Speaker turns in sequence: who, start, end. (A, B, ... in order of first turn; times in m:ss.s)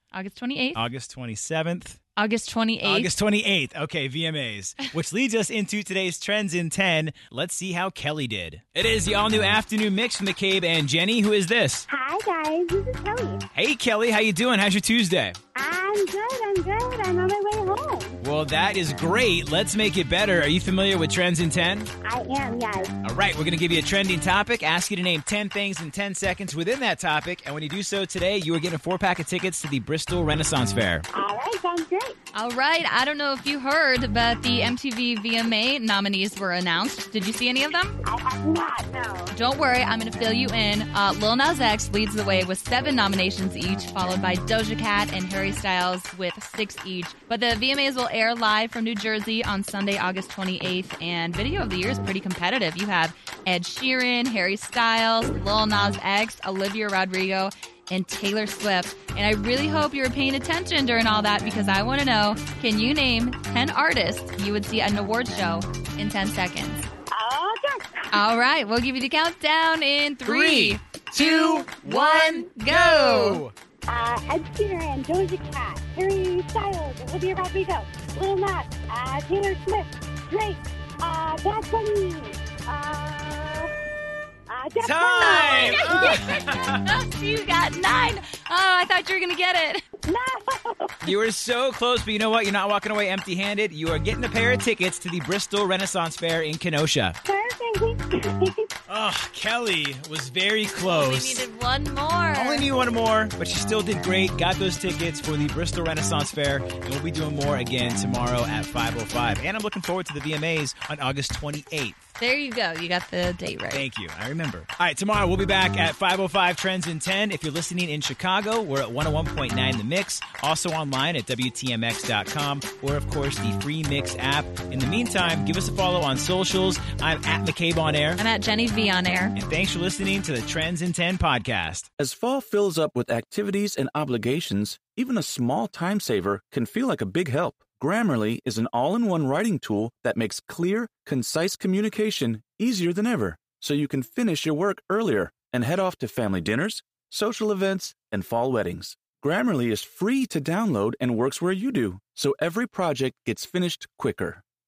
0:00.1-0:00.8 A
0:00.7-0:02.0 B
0:02.2-0:03.1 A
0:02.8-0:11.9 B
0:11.9-0:13.4 C
0:13.5-0:15.4 B
0:15.5-0:18.2 C
0:18.2-0:21.9 B
0:22.0-0:23.0 C
0:23.0-0:31.0 B
0:31.1-0:32.2 C
0:32.3-0:37.9 A
0:38.0-0:39.3 C
0:39.3-1:06.9 A
1:07.1-1:08.2 C
1:08.1-1:13.4 A
1:10.2-1:13.5 B
1:13.9-1:23.7 C
1:24.5-1:26.2 C
1:24.8-1:26.8 B
1:25.2-1:29.8 A
1:30.0-1:31.0 C
1:31.0-1:37.2 B
1:37.2-1:38.7 C
1:38.9-1:41.4 B
1:40.8-1:42.7 A
1:42.4-1:52.0 B
1:52.2-1:53.8 A
1:53.7-2:08.2 B
2:08.2-2:09.3 A
2:09.3-2:11.8 B
2:12.0-2:34.4 D